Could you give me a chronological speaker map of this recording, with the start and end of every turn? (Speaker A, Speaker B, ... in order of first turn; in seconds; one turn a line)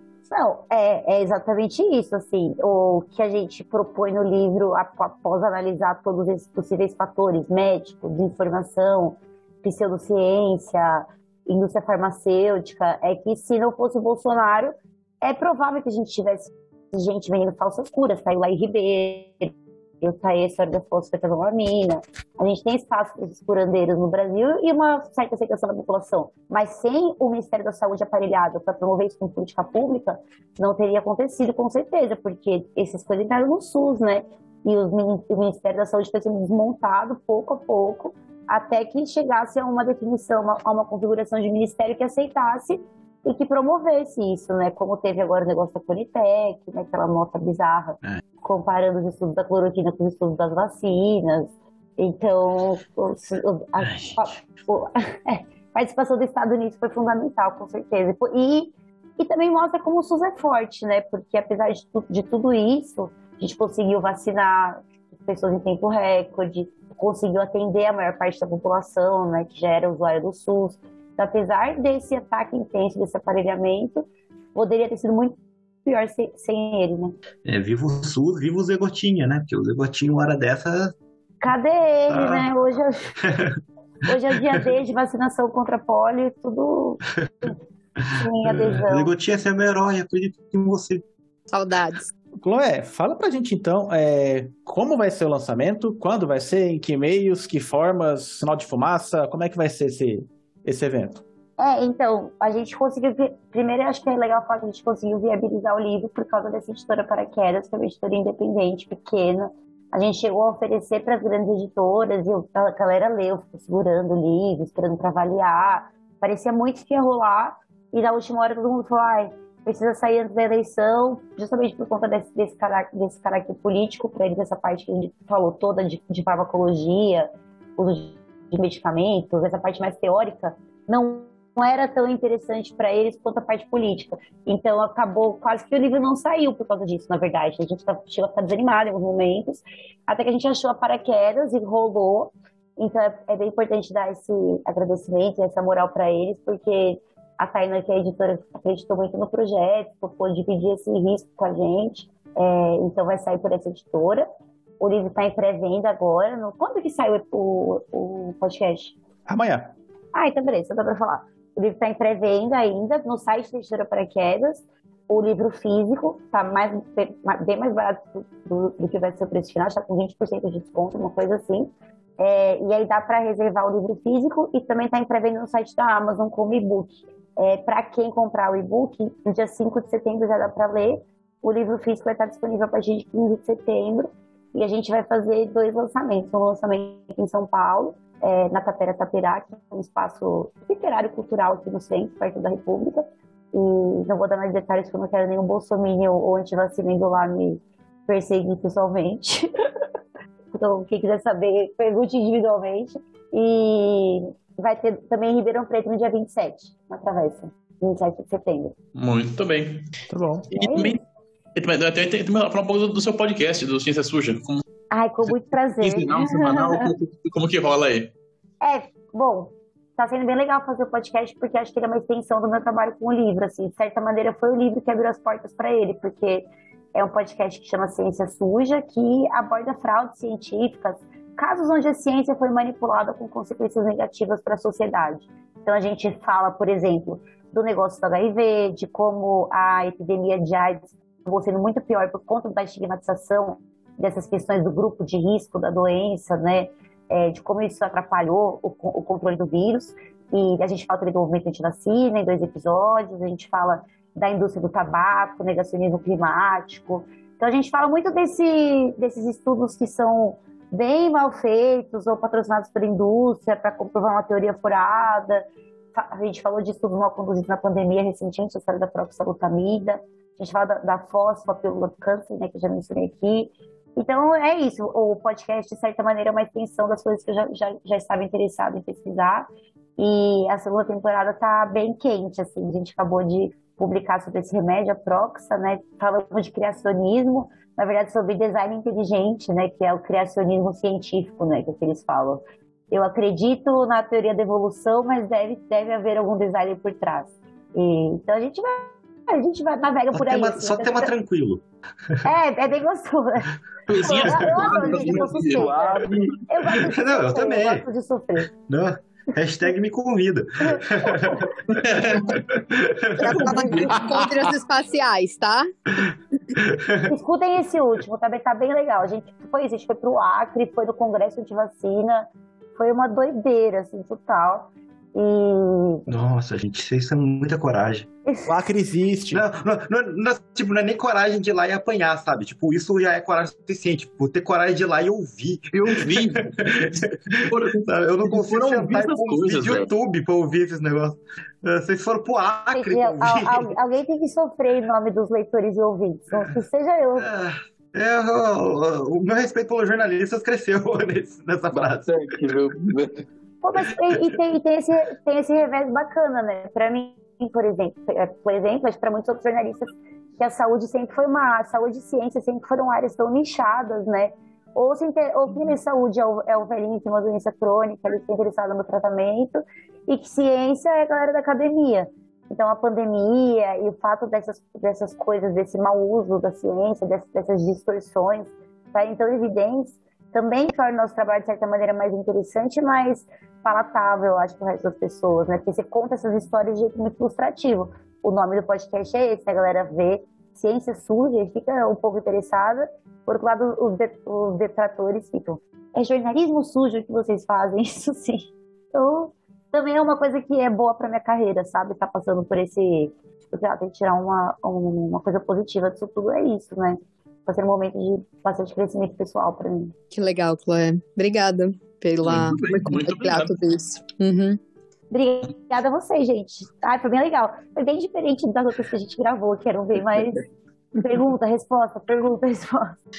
Speaker A: 0.3-77.2
Speaker B: 53.9-54.2
Speaker B: 77.5-80.9
Speaker A: 81.4-83.1
Speaker B: 82.1-82.5
Speaker B: 83.2-83.5
Speaker A: 84.1-87.0
Speaker B: 87.2-91.0
Speaker A: 88.1-89.1
Speaker C: 91.5-92.1
Speaker D: 92.4-101.2
Speaker A: 101.6-154.3
Speaker A: 154.8-158.9
Speaker D: 159.3-159.7
Speaker A: 160.1-199.5
Speaker A: 200.5-208.8
Speaker E: 208.9-209.9
Speaker D: 210.1-210.9
Speaker A: 210.5-211.0
Speaker E: 210.6-211.0
Speaker E: 211.6-214.6
Speaker A: 214.9-216.9
Speaker E: 215.8-218.1
Speaker A: 218.6-265.4
Speaker A: 265.9-301.1
Speaker B: 300.1-301.6
Speaker A: 302.2-303.5
Speaker E: 303.9-305.5
Speaker F: 304.0-306.4
Speaker A: 304.1-308.5
Speaker B: 306.9-307.9
Speaker B: 308.7-313.5
Speaker A: 310.7-311.4
Speaker E: 311.7-312.6
Speaker C: 313.2-315.7
Speaker E: 313.2-313.9
Speaker D: 313.5-314.5
Speaker A: 313.6-313.9
Speaker B: 316.6-317.1
Speaker A: 317.1-326.1
Speaker B: 326.1-328.1
Speaker D: 328.5-329.5
Speaker B: 329.3-343.7
Speaker E: 335.8-339.9
Speaker A: 342.7-347.3
Speaker B: 347.2-352.1
Speaker F: 351.7-353.3
Speaker A: 353.6-409.9
Speaker C: 410.1-414.6
Speaker E: 412.2-413.6
Speaker A: 415.1-420.5
Speaker A: 421.0-423.0